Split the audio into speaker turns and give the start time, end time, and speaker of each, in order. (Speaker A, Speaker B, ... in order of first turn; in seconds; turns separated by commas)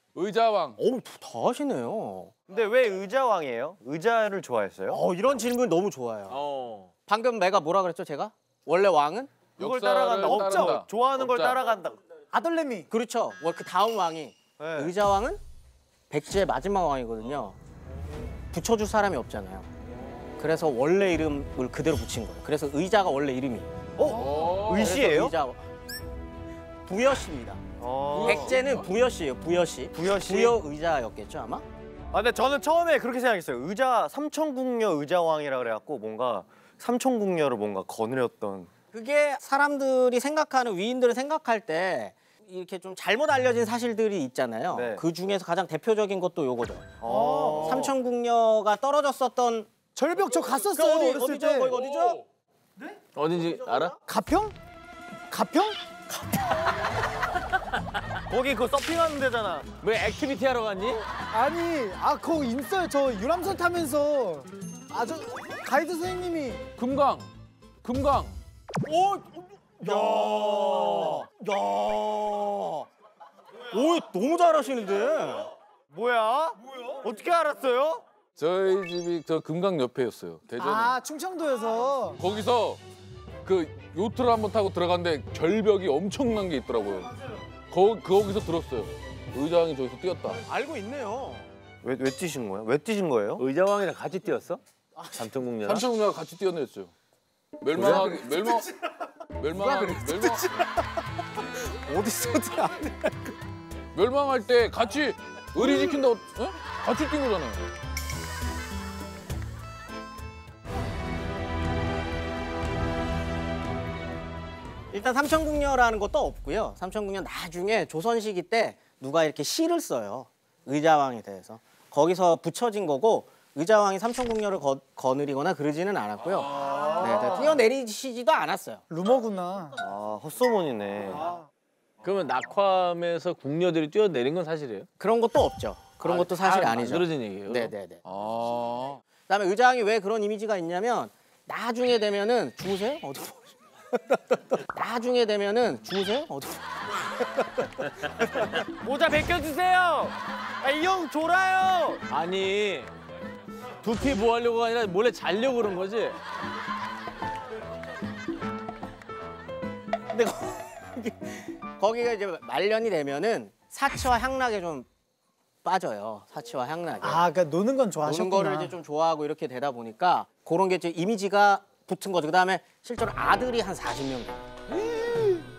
Speaker A: 0.1-0.8, Speaker B: 0.8-2.3, Speaker C: 2.5-5.0, Speaker B: 4.9-6.4, Speaker D: 6.3-6.9, Speaker B: 7.1-9.3, Speaker A: 9.6-11.6, Speaker C: 9.6-12.0, Speaker E: 10.3-10.8, Speaker E: 12.3-12.9, Speaker B: 12.9-15.4, Speaker C: 14.6-14.9, Speaker B: 16.1-17.6, Speaker B: 18.5-19.7, Speaker B: 20.4-23.7, Speaker C: 24.0-25.3, Speaker A: 24.1-24.9, Speaker B: 24.7-25.6, Speaker B: 26.9-27.6, Speaker C: 27.8-28.5, Speaker A: 28.1-28.9, Speaker B: 28.1-31.6, Speaker C: 29.9-30.6, Speaker C: 32.1-38.7, Speaker B: 38.9-46.9, Speaker C: 44.7-45.0, Speaker C: 47.0-47.9, Speaker E: 47.1-47.7, Speaker B: 47.6-49.7, Speaker E: 49.9-51.7, Speaker B: 50.5-52.2, Speaker A: 51.7-52.2, Speaker D: 53.1-54.0, Speaker E: 54.1-54.5, Speaker E: 55.3-55.8, Speaker C: 58.3-59.6, Speaker D: 59.8-61.0, Speaker E: 61.3-66.7, Speaker A: 66.8-67.3, Speaker A: 67.8-68.4, Speaker B: 68.8-72.8, Speaker C: 69.8-71.2, Speaker B: 73.7-75.5, Speaker C: 75.9-78.0, Speaker A: 78.3-81.0, Speaker E: 80.6-82.2, Speaker A: 82.2-82.8, Speaker A: 83.4-87.1, Speaker A: 87.7-90.4, Speaker B: 90.5-91.5, Speaker C: 91.8-93.4, Speaker D: 93.4-94.6, Speaker D: 95.1-95.8, Speaker A: 95.6-96.9, Speaker A: 97.6-98.7, Speaker D: 97.8-98.1, Speaker A: 99.4-100.6, Speaker E: 99.7-100.7, Speaker E: 101.7-103.1, Speaker A: 103.9-107.6, Speaker B: 114.9-128.8, Speaker E: 128.9-129.8, Speaker C: 129.8-131.3, Speaker D: 132.0-134.9, Speaker B: 135.0-138.0, Speaker D: 136.0-137.7, Speaker A: 138.1-139.0, Speaker B: 139.3-143.5, Speaker B: 144.5-146.9, Speaker C: 148.5-152.0, Speaker D: 152.1-152.9, Speaker D: 153.8-156.2, Speaker B: 160.1-164.9, Speaker B: 165.6-167.2, Speaker E: 167.0-168.7, Speaker B: 168.0-174.4